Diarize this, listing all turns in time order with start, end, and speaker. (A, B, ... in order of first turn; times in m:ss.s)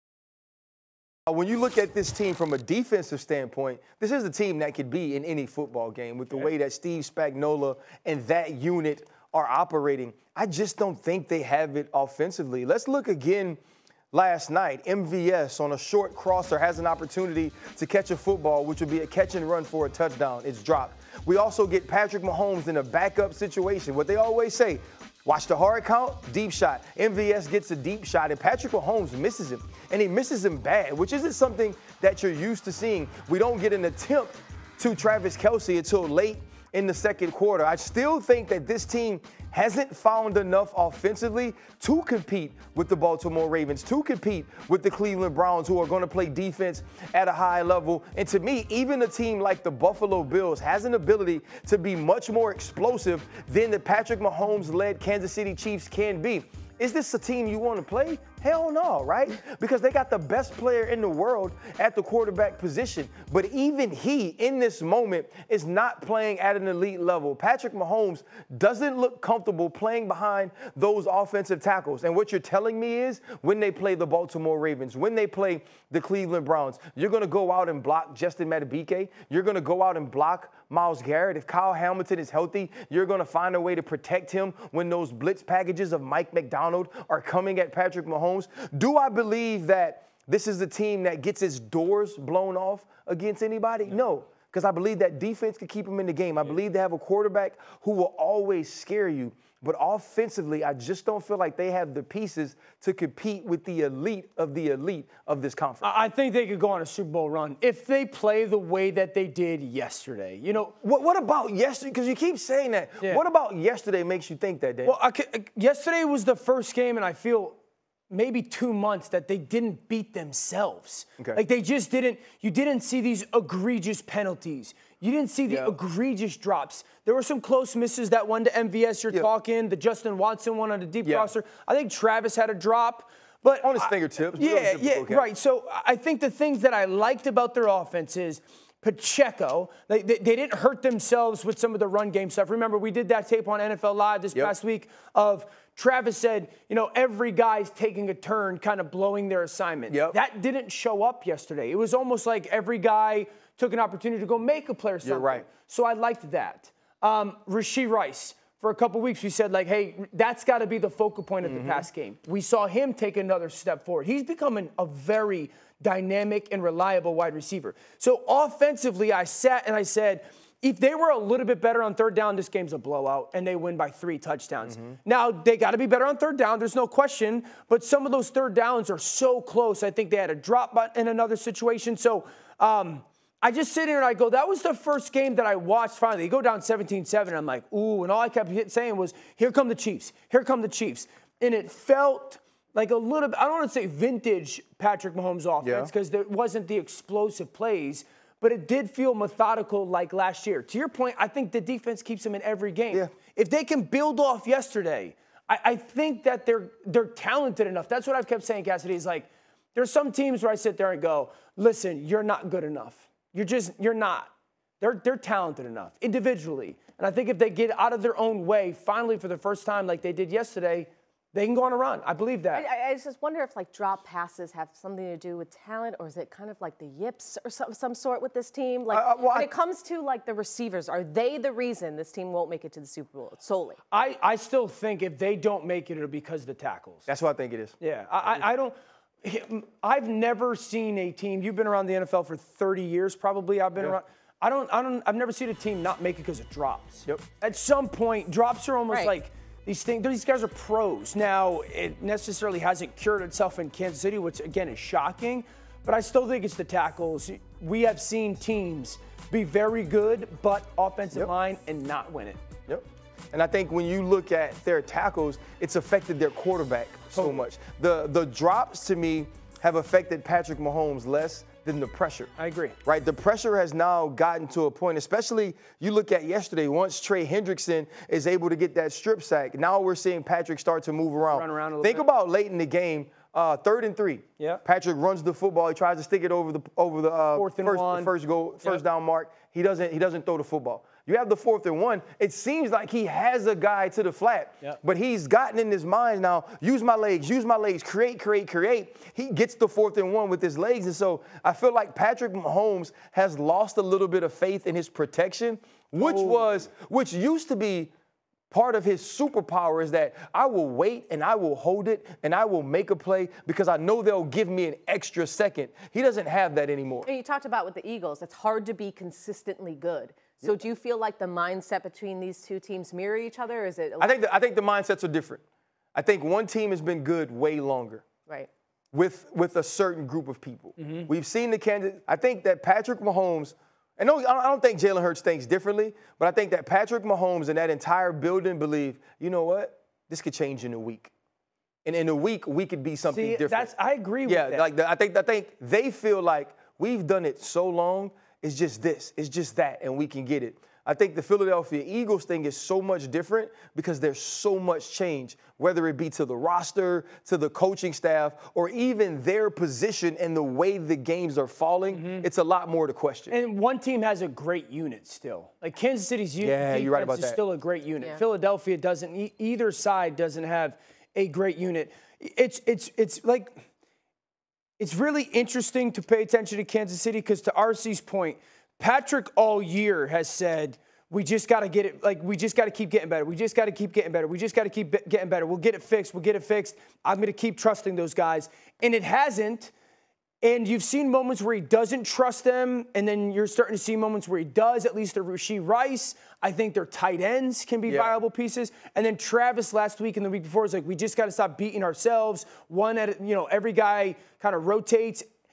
0:01.3-0:13.6 A
0:14.1-1:45.9 A
1:45.8-1:50.8 B
1:50.8-1:55.0 A
1:54.8-1:57.6 B
1:58.1-3:42.6 B
2:05.5-2:05.8 A
2:11.0-2:11.3 A
2:13.6-2:15.3 A
2:29.9-2:30.2 A
2:35.0-2:35.4 A
2:41.4-2:41.8 A
3:15.6-3:15.9 A
3:42.5-3:53.8 C
3:48.9-3:49.5 A
3:53.9-3:57.1 B
3:57.1-3:57.8 A
3:57.8-4:22.4 B
4:22.7-4:32.3 A
4:27.1-4:27.4 B
4:32.4-4:32.8 B
4:32.8-5:07.9 A
4:41.3-4:42.0 B
4:47.4-4:48.8 B
5:06.0-5:06.5 B
5:08.5-5:17.1 A
5:17.1-5:24.2 C
5:24.0-5:25.4 A
5:26.0-5:28.0 A
5:28.9-5:41.1 A
5:30.8-5:31.1 B
5:41.8-5:43.7 A
5:43.1-5:44.6 B
5:44.3-6:03.4 A
6:01.9-6:02.3 B
6:03.3-6:13.6 B
6:06.4-6:07.4 A
6:14.8-6:29.7 B
6:30.4-6:45.3 B
6:37.9-6:38.2 A